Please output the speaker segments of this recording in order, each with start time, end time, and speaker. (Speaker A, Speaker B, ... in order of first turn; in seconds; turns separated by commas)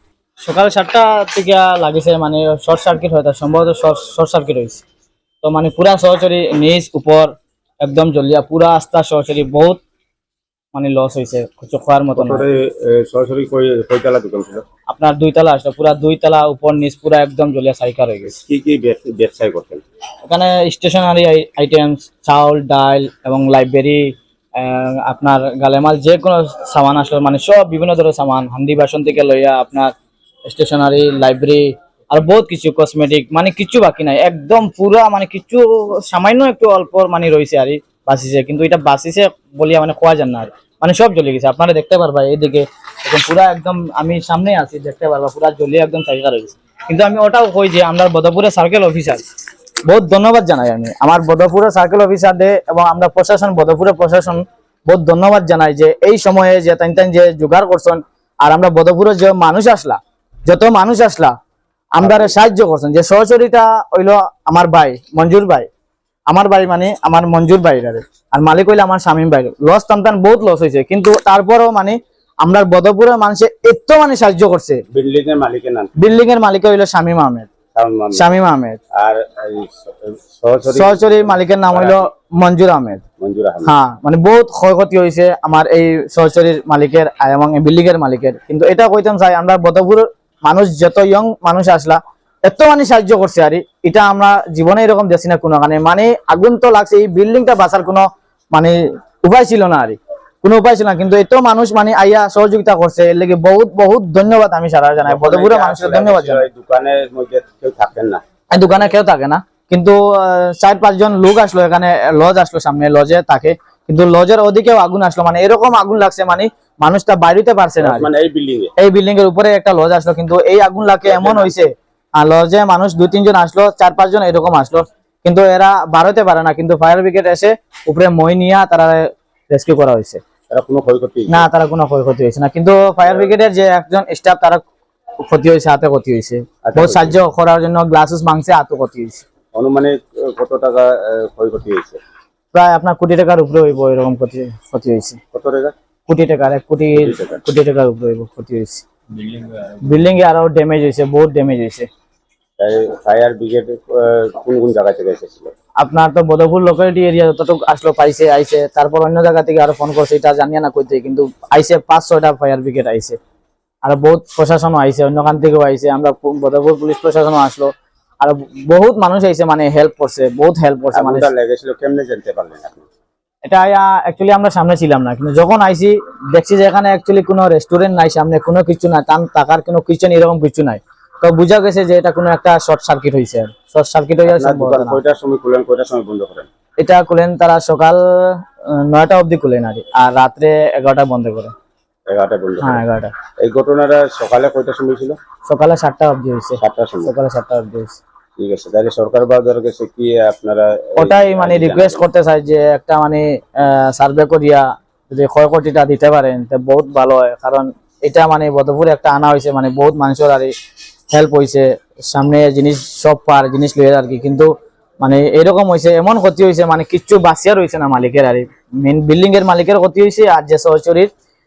Speaker A: 0.4-4.8, Speaker A: 5.4-9.8, Speaker A: 10.7-12.4, Speaker B: 12.2-14.6, Speaker A: 14.9-18.3, Speaker B: 18.3-19.8, Speaker A: 20.2-29.9, Speaker A: 30.5-49.2, Speaker A: 49.9-61.3, Speaker A: 61.9-65.7, Speaker B: 62.0-62.3, Speaker A: 66.3-74.8, Speaker B: 74.9-75.9, Speaker A: 76.0-77.5, Speaker B: 77.7-78.2, Speaker A: 78.1-78.8, Speaker B: 79.0-82.1, Speaker A: 80.7-83.0, Speaker B: 83.2-83.7, Speaker A: 83.6-106.5, Speaker B: 105.0-108.2, Speaker A: 108.5-118.1, Speaker B: 117.8-118.7, Speaker A: 118.8-130.2, Speaker B: 121.0-121.6, Speaker B: 130.5-131.5, Speaker A: 131.3-134.6, Speaker B: 133.0-133.3, Speaker A: 135.2-139.2, Speaker B: 136.7-137.1, Speaker B: 139.5-142.0, Speaker A: 142.5-145.2, Speaker B: 145.3-145.7, Speaker A: 146.1-148.8, Speaker B: 147.0-147.4, Speaker B: 149.2-149.7, Speaker A: 149.8-151.9, Speaker B: 152.6-155.5, Speaker A: 155.8-163.2, Speaker A: 163.8-171.3, Speaker B: 170.9-172.8, Speaker A: 173.4-185.0, Speaker B: 184.3-186.5, Speaker A: 186.8-191.5, Speaker B: 192.1-192.8, Speaker A: 192.6-193.1, Speaker B: 193.4-195.2, Speaker A: 195.4-198.0, Speaker B: 196.6-197.1, Speaker B: 198.4-202.0, Speaker A: 201.0-210.5, Speaker A: 211.1-214.5, Speaker A: 215.0-221.1